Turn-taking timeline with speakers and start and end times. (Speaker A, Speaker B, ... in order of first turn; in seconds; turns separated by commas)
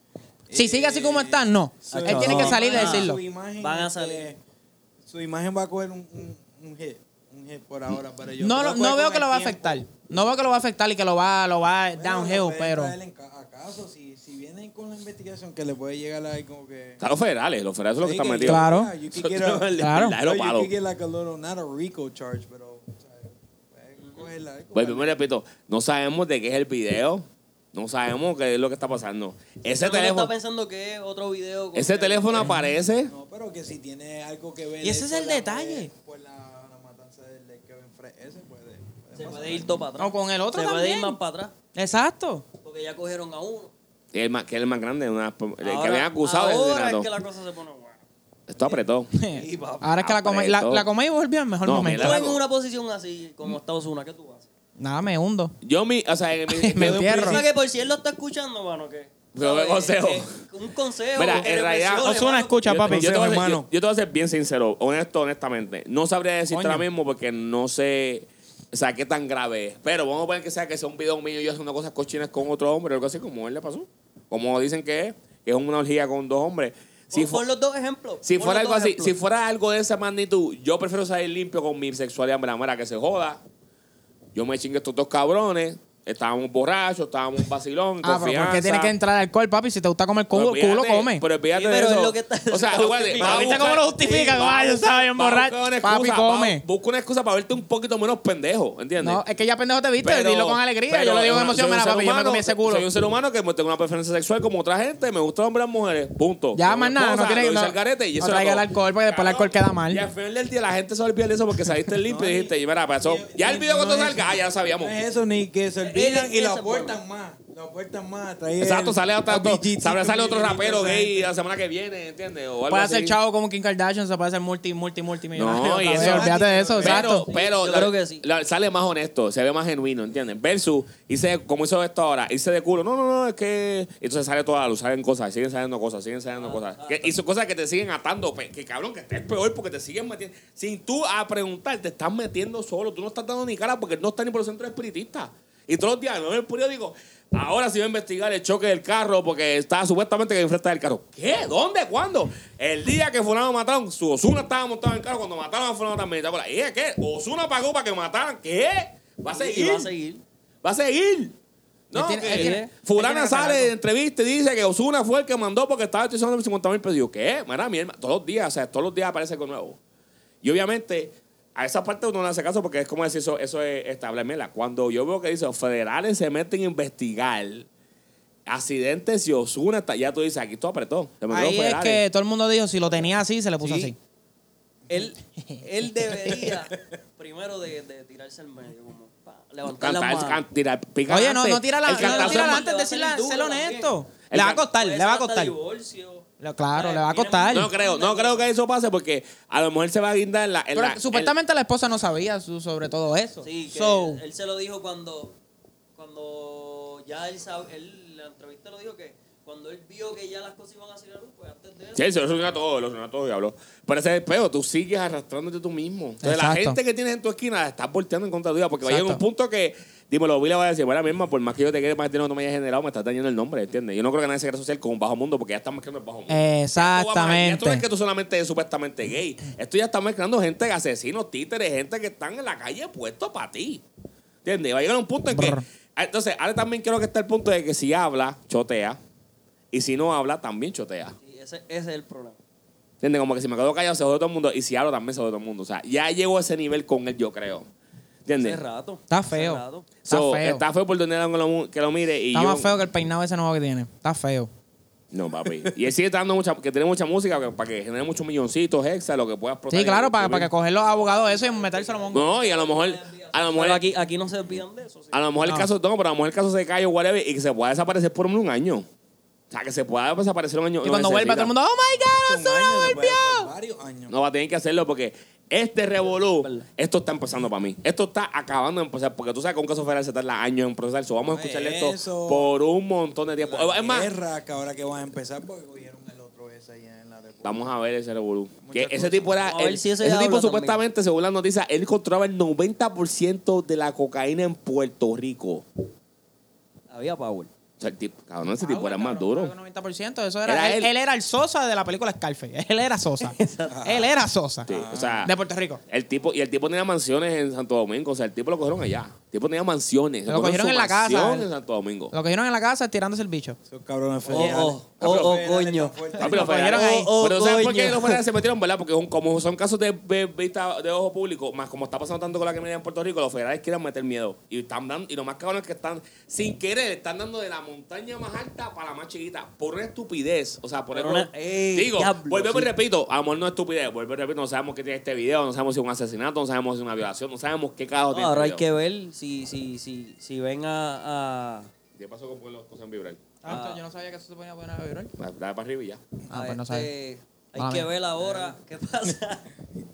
Speaker A: 0.5-4.4, Speaker B: 0.5-3.2, Speaker C: 1.9-4.3, Speaker A: 5.1-9.8, Speaker B: 8.4-12.9, Speaker A: 11.9-17.0, Speaker D: 17.0-20.7, Speaker A: 18.0-25.2, Speaker B: 18.5-18.9, Speaker B: 19.8-20.2, Speaker C: 24.0-24.3, Speaker D: 24.8-30.3, Speaker C: 29.7-32.5, Speaker D: 31.8-33.1, Speaker A: 33.1-39.9, Speaker B: 34.8-35.9, Speaker C: 39.2-41.5, Speaker B: 40.0-41.2, Speaker B: 41.8-42.5, Speaker C: 42.6-43.7, Speaker D: 44.1-47.1, Speaker C: 45.6-48.0, Speaker D: 48.5-49.1, Speaker C: 48.6-49.9, Speaker B: 49.1-52.2, Speaker D: 50.0-50.9, Speaker D: 51.6-52.4, Speaker C: 51.9-54.5, Speaker B: 54.8-55.5, Speaker D: 55.6-57.5, Speaker B: 56.5-57.4, Speaker C: 56.8-62.6, Speaker D: 59.3-60.4, Speaker D: 61.2-77.4, Speaker B: 62.0-63.2, Speaker A: 62.8-63.7, Speaker C: 77.1-79.2, Speaker D: 78.2-83.4, Speaker D: 84.3-88.9, Speaker B: 88.0-91.2, Speaker D: 90.3-99.2, Speaker C: 91.5-94.5, Speaker B: 93.2-96.6, Speaker B: 99.0-102.9, Speaker D: 100.0-115.0, Speaker B: 106.6-110.0, Speaker A: 112.0-121.3, Speaker C: 115.8-117.0, Speaker D: 118.6-123.2, Speaker B: 122.7-127.3, Speaker D: 125.3-159.9, Speaker A: 125.6-127.1, Speaker C: 127.3-128.2, Speaker C: 136.4-137.2, Speaker C: 159.3-160.2, Speaker D: 160.6-161.3, Speaker D: 161.9-169.8, Speaker B: 161.9-163.7, Speaker C: 162.2-162.7, Speaker D: 170.4-177.7, Speaker D: 178.5-182.0, Speaker B: 181.3-183.9, Speaker C: 183.6-183.9, Speaker C: 184.9-190.4, Speaker B: 185.4-185.7, Speaker D: 189.6-192.6, Speaker B: 191.1-195.5, Speaker C: 191.9-194.0, Speaker D: 194.3-194.6, Speaker C: 194.7-198.5, Speaker B: 196.4-197.7, Speaker D: 197.5-201.3, Speaker B: 200.8-204.2, Speaker C: 203.4-205.3, Speaker C: 206.0-212.6, Speaker D: 212.0-233.8, Speaker B: 216.2-216.8, Speaker B: 218.8-219.2, Speaker B: 226.3-227.8, Speaker D: 234.4-239.0, Speaker B: 235.3-235.6, Speaker D: 239.7-241.2, Speaker C: 241.2-242.4, Speaker D: 243.0-247.7, Speaker D: 248.3-248.6, Speaker C: 248.3-249.9, Speaker B: 249.1-250.6, Speaker D: 250.1-252.8, Speaker B: 252.3-254.5, Speaker D: 255.1-260.5, Speaker B: 259.7-262.3, Speaker C: 260.7-265.2, Speaker D: 262.1-263.9, Speaker D: 265.1-268.9, Speaker B: 265.4-265.7, Speaker D: 269.5-271.5, Speaker B: 270.8-273.5, Speaker A: 272.1-274.1, Speaker D: 274.1-284.1, Speaker C: 276.2-276.7, Speaker A: 281.2-282.6, Speaker A: 283.4-287.6, Speaker D: 287.4-295.6, Speaker A: 288.6-289.5, Speaker C: 289.4-290.8, Speaker C: 296.9-297.5, Speaker D: 297.8-299.5, Speaker B: 298.6-304.7, Speaker D: 300.5-300.9, Speaker C: 303.2-303.9, Speaker A: 303.7-304.1, Speaker D: 304.7-305.3, Speaker A: 304.7-305.3, Speaker B: 305.2-305.8, Speaker D: 305.9-312.1, Speaker B: 310.3-311.5, Speaker B: 312.1-313.6, Speaker A: 313.7-316.5, Speaker C: 314.3-318.2, Speaker D: 314.3-315.4, Speaker D: 316.2-338.6, Speaker B: 316.2-317.1, Speaker C: 330.9-332.7, Speaker C: 338.1-341.7, Speaker D: 342.0-343.2, Speaker B: 343.4-345.1, Speaker C: 343.4-343.8, Speaker D: 345.2-346.0, Speaker B: 346.3-346.9, Speaker C: 346.3-349.5, Speaker B: 347.6-347.9, Speaker A: 348.2-348.5